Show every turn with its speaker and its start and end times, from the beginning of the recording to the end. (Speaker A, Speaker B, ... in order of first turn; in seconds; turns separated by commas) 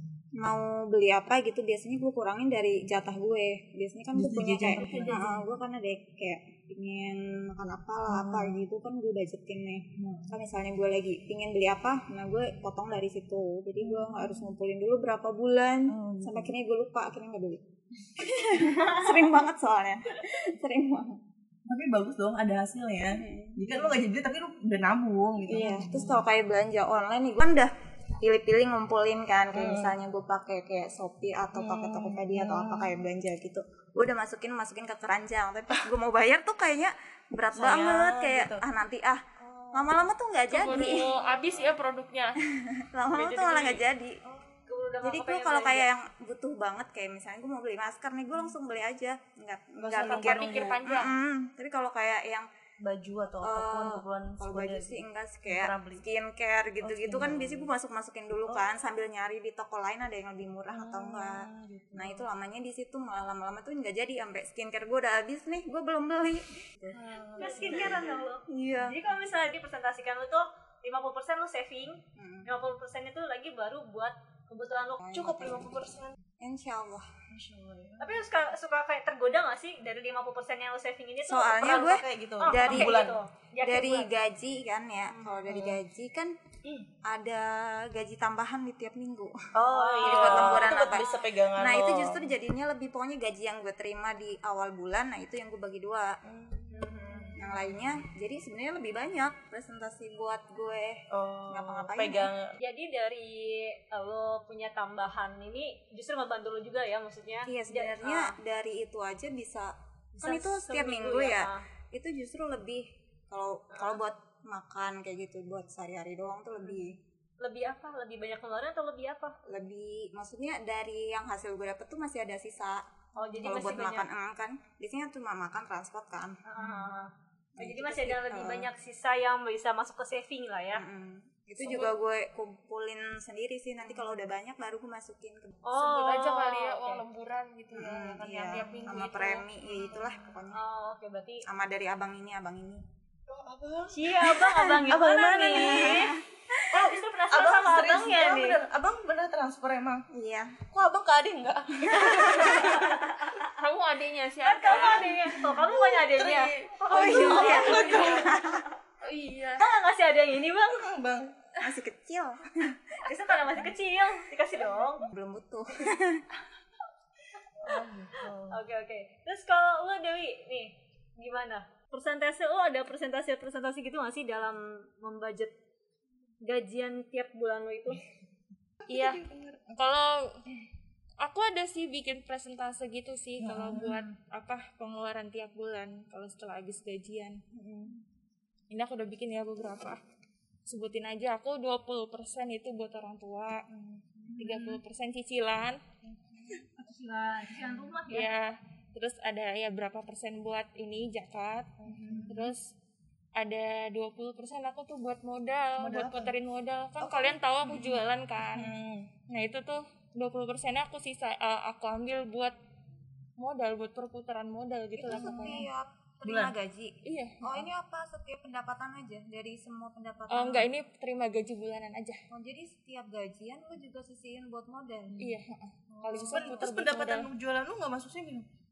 Speaker A: 0.4-21.2, Speaker B: 4.1-5.4, Speaker B: 8.1-8.6, Speaker B: 10.0-10.3, Speaker B: 13.8-14.5, Speaker B: 15.9-16.5, Speaker B: 21.7-26.2, Speaker A: 23.1-23.6, Speaker A: 25.5-41.1, Speaker B: 29.5-29.9, Speaker B: 31.6-32.9, Speaker B: 37.5-38.6, Speaker B: 39.4-40.0, Speaker C: 40.5-42.4, Speaker B: 41.2-41.6, Speaker A: 42.4-44.2, Speaker C: 43.1-43.8, Speaker B: 44.2-44.6, Speaker D: 44.7-45.9, Speaker A: 45.0-52.5, Speaker B: 49.8-50.9, Speaker C: 49.9-51.1, Speaker B: 52.8-56.0, Speaker A: 53.4-69.0, Speaker B: 56.8-57.7, Speaker B: 60.7-62.3, Speaker B: 66.9-68.2, Speaker D: 67.4-75.0, Speaker A: 72.1-72.5, Speaker A: 75.0-75.7, Speaker B: 75.1-76.1, Speaker A: 76.4-77.1, Speaker B: 77.3-78.2, Speaker D: 78.0-84.1, Speaker A: 81.2-86.4, Speaker B: 81.5-83.2, Speaker B: 85.3-85.8, Speaker B: 86.6-86.9, Speaker A: 87.0-89.4, Speaker B: 89.5-92.2, Speaker D: 89.7-91.2, Speaker A: 90.0-96.2, Speaker B: 96.2-97.7, Speaker D: 96.7-97.3, Speaker A: 96.8-102.3, Speaker B: 101.1-102.5, Speaker D: 102.6-108.3, Speaker A: 107.4-117.0, Speaker D: 110.2-111.6, Speaker D: 117.4-119.3, Speaker A: 119.5-126.4, Speaker D: 123.2-124.1, Speaker D: 126.5-130.8, Speaker A: 127.6-128.7, Speaker A: 130.7-135.7, Speaker D: 131.6-131.9, Speaker D: 135.6-137.0, Speaker C: 135.8-139.4, Speaker A: 137.7-140.6, Speaker B: 139.8-140.1, Speaker D: 140.5-141.4, Speaker A: 141.4-142.8, Speaker B: 143.3-144.3, Speaker D: 143.9-148.6, Speaker A: 144.3-146.6, Speaker B: 144.8-150.0, Speaker A: 150.1-150.6, Speaker B: 150.7-153.2, Speaker D: 151.9-153.4, Speaker C: 153.4-155.3, Speaker D: 154.4-158.6, Speaker B: 154.7-158.4, Speaker A: 156.9-158.7, Speaker C: 157.3-158.2, Speaker C: 159.0-159.7, Speaker D: 159.6-160.9, Speaker B: 160.7-161.4, Speaker A: 161.6-163.1, Speaker D: 163.0-165.1, Speaker A: 165.0-166.2, Speaker B: 167.6-168.6, Speaker D: 168.4-175.5, Speaker D: 176.4-178.0, Speaker B: 178.8-179.6, Speaker C: 178.9-179.2, Speaker C: 179.7-180.4, Speaker C: 181.2-187.4, Speaker B: 183.4-184.0, Speaker B: 187.5-188.0, Speaker C: 188.7-190.0, Speaker C: 190.7-193.7, Speaker B: 193.7-194.7, Speaker C: 194.3-195.8, Speaker B: 196.1-196.4, Speaker D: 196.8-198.3, Speaker C: 198.1-202.7, Speaker B: 201.8-202.5, Speaker C: 203.3-208.7, Speaker B: 205.8-206.3, Speaker B: 207.0-209.1, Speaker C: 209.3-212.6, Speaker C: 213.4-215.7, Speaker A: 215.0-220.7, Speaker B: 215.0-215.7, Speaker B: 216.2-216.5, Speaker C: 217.0-217.5, Speaker C: 220.3-222.2, Speaker A: 222.3-225.3, Speaker C: 225.2-227.3, Speaker A: 225.9-226.6, Speaker B: 226.0-228.4